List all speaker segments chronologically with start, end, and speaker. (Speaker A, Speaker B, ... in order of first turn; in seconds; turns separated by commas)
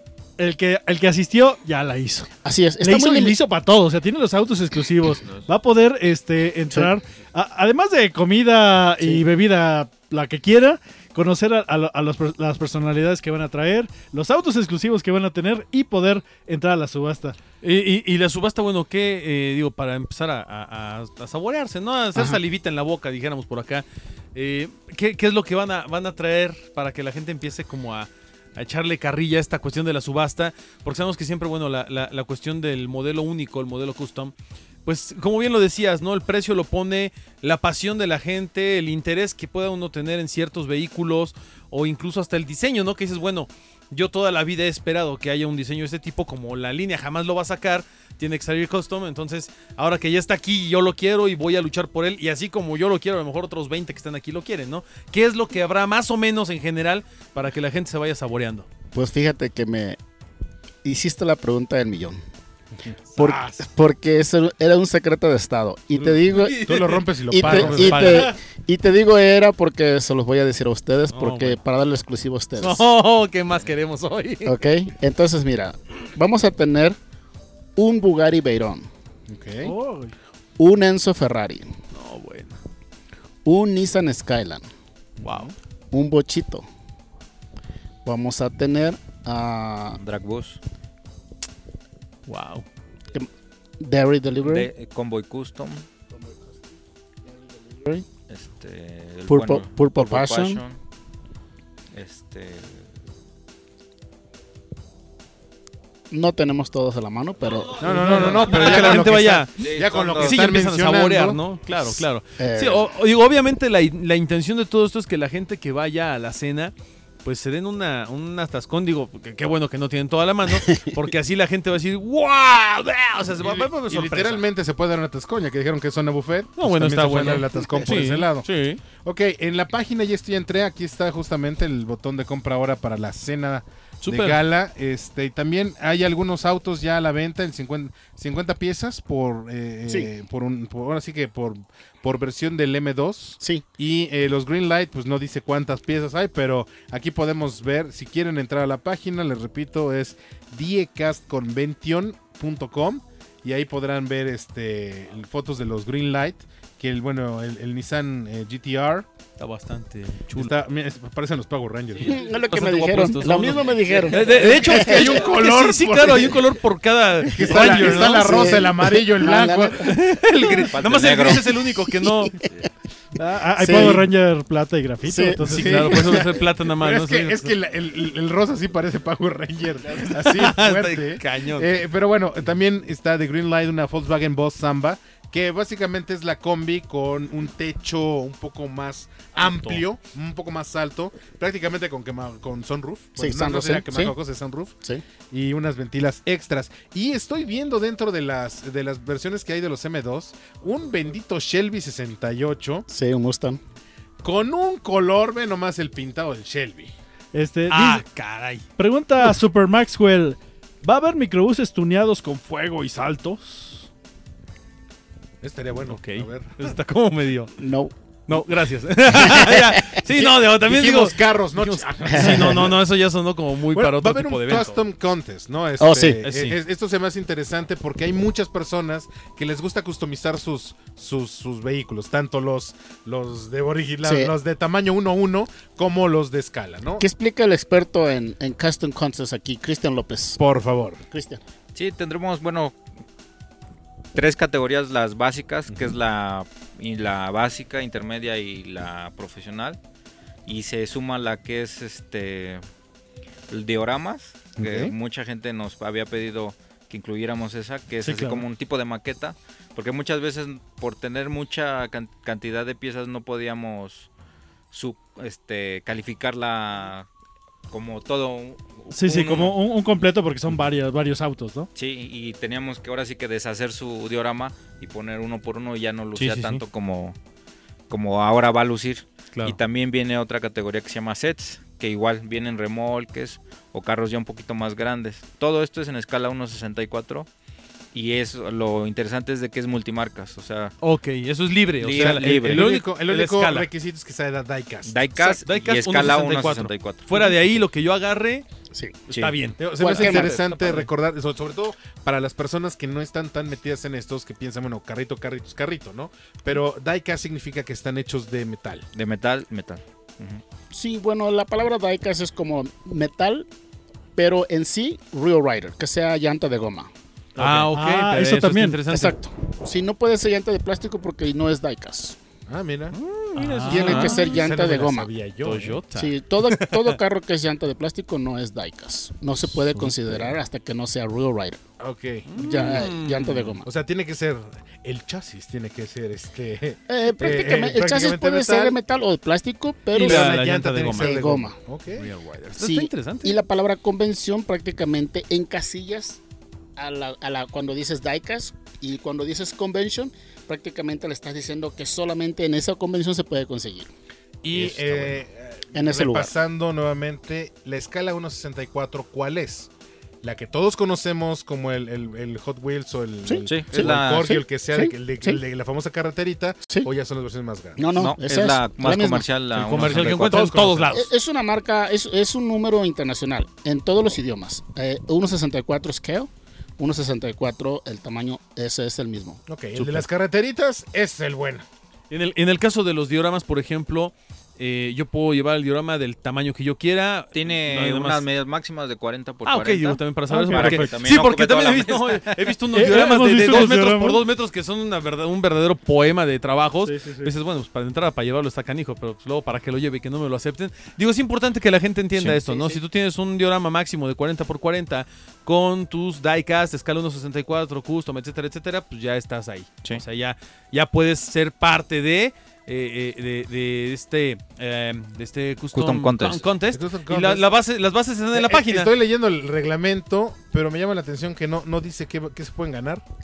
Speaker A: 0.4-2.3, Speaker B: 2.5-3.4, Speaker A: 2.8-17.4, Speaker C: 17.6-34.3, Speaker C: 34.9-58.7, Speaker B: 58.9-60.0, Speaker B: 60.8-62.2, Speaker D: 63.1-63.6, Speaker B: 63.1-66.6, Speaker C: 66.3-68.3, Speaker D: 66.5-68.3, Speaker B: 67.3-72.8, Speaker C: 71.1-71.6, Speaker C: 72.6-74.5, Speaker B: 74.5-77.0, Speaker B: 77.8-78.9, Speaker D: 79.3-79.7, Speaker A: 79.6-80.1, Speaker B: 80.6-81.7, Speaker C: 81.9-82.6, Speaker B: 83.5-84.7, Speaker C: 85.2-85.5, Speaker D: 85.2-85.5, Speaker B: 85.9-86.7, Speaker B: 88.0-90.0, Speaker E: 90.0-90.6, Speaker C: 92.3-92.7, Speaker B: 93.8-94.7, Speaker E: 94.4-95.9, Speaker B: 97.7-98.0, Speaker E: 98.3-100.8, Speaker B: 99.3-100.6, Speaker E: 101.9-102.9, Speaker B: 106.1-108.3, Speaker D: 107.8-111.4, Speaker C: 107.9-116.7, Speaker E: 108.1-109.0, Speaker E: 109.6-110.3, Speaker B: 112.4-112.9, Speaker C: 117.2-124.4, Speaker D: 123.4-128.5, Speaker C: 126.6-128.8, Speaker D: 129.0-159.1, Speaker C: 134.0-134.4, Speaker C: 159.4-160.5, Speaker D: 160.3-162.2, Speaker B: 162.1-164.2, Speaker C: 162.5-168.5, Speaker D: 164.1-166.4, Speaker D: 167.3-170.7, Speaker B: 167.4-169.9, Speaker C: 169.8-172.3, Speaker E: 170.5-171.6, Speaker B: 171.9-172.3, Speaker A: 173.2-175.9, Speaker B: 173.6-174.1, Speaker B: 175.1-175.4, Speaker C: 175.4-177.5, Speaker D: 175.5-194.7, Speaker C: 180.0-181.7, Speaker C: 189.4-189.8, Speaker B: 193.2-194.1, Speaker D: 195.3-202.9, Speaker B: 202.9-203.6, Speaker D: 204.2-206.9, Speaker A: 207.3-208.1, Speaker C: 207.7-208.7, Speaker A: 208.8-213.9, Speaker D: 215.4-216.7, Speaker C: 215.9-217.5, Speaker B: 217.6-217.9, Speaker C: 218.3-224.8, Speaker B: 219.2-220.0, Speaker D: 220.1-222.8, Speaker B: 222.1-222.5, Speaker D: 223.7-237.0, Speaker B: 225.8-226.2, Speaker C: 226.2-226.6, Speaker B: 234.0-234.3, Speaker B: 237.0-240.4, Speaker D: 240.4-241.0, Speaker B: 241.1-241.4, Speaker E: 241.8-242.8, Speaker E: 244.1-249.8, Speaker D: 245.7-245.9, Speaker E: 250.5-252.6, Speaker E: 253.5-264.1, Speaker D: 254.6-254.9, Speaker A: 258.0-258.4, Speaker E: 264.7-267.1, Speaker E: 267.7-269.6, Speaker A: 268.9-271.7, Speaker E: 271.8-277.2, Speaker C: 276.2-276.6, Speaker E: 277.9-287.3, Speaker E: 287.9-290.7, Speaker C: 290.8-293.7, Speaker E: 291.8-292.7, Speaker D: 291.9-295.0, Speaker E: 294.9-297.6, Speaker C: 295.2-298.4, Speaker C: 299.1-300.9, Speaker E: 299.1-299.4, Speaker D: 299.6-308.9, Speaker B: 299.8-300.4, Speaker E: 308.9-310.4, Speaker B: 310.7-313.5, Speaker B: 314.2-316.9, Speaker C: 317.4-319.2, Speaker A: 317.4-318.8, Speaker B: 318.9-322.2, Speaker D: 322.5-323.0, Speaker C: 322.9-324.2, Speaker A: 323.4-324.1, Speaker B: 323.7-325.1, Speaker D: 323.7-325.8, Speaker C: 325.4-327.0, Speaker B: 325.9-331.6, Speaker D: 331.8-332.9, Speaker C: 332.3-333.6, Speaker B: 332.4-333.7, Speaker D: 333.6-338.8, Speaker B: 336.9-340.4, Speaker C: 340.0-341.3, Speaker D: 340.0-342.1, Speaker B: 340.9-341.6, Speaker C: 342.0-343.4, Speaker B: 342.6-346.2, Speaker B: 346.8-353.9, Speaker D: 354.4-359.7, Speaker B: 355.7-356.3, Speaker D: 360.2-367.9, Speaker B: 363.2-365.4, Speaker E: 363.5-364.4, Speaker B: 367.8-369.3, Speaker E: 367.9-370.7, Speaker C: 369.5-371.1, Speaker D: 369.7-370.9, Speaker B: 370.9-379.4, Speaker D: 379.5-381.6, Speaker C: 379.8-380.1, Speaker C: 382.1-388.2, Speaker E: 387.3-392.3, Speaker C: 389.4-418.9, Speaker A: 390.3-391.0, Speaker A: 392.7-394.2, Speaker A: 396.8-397.3, Speaker E: 415.7-416.5, Speaker D: 416.7-417.5, Speaker D: 418.3-423.0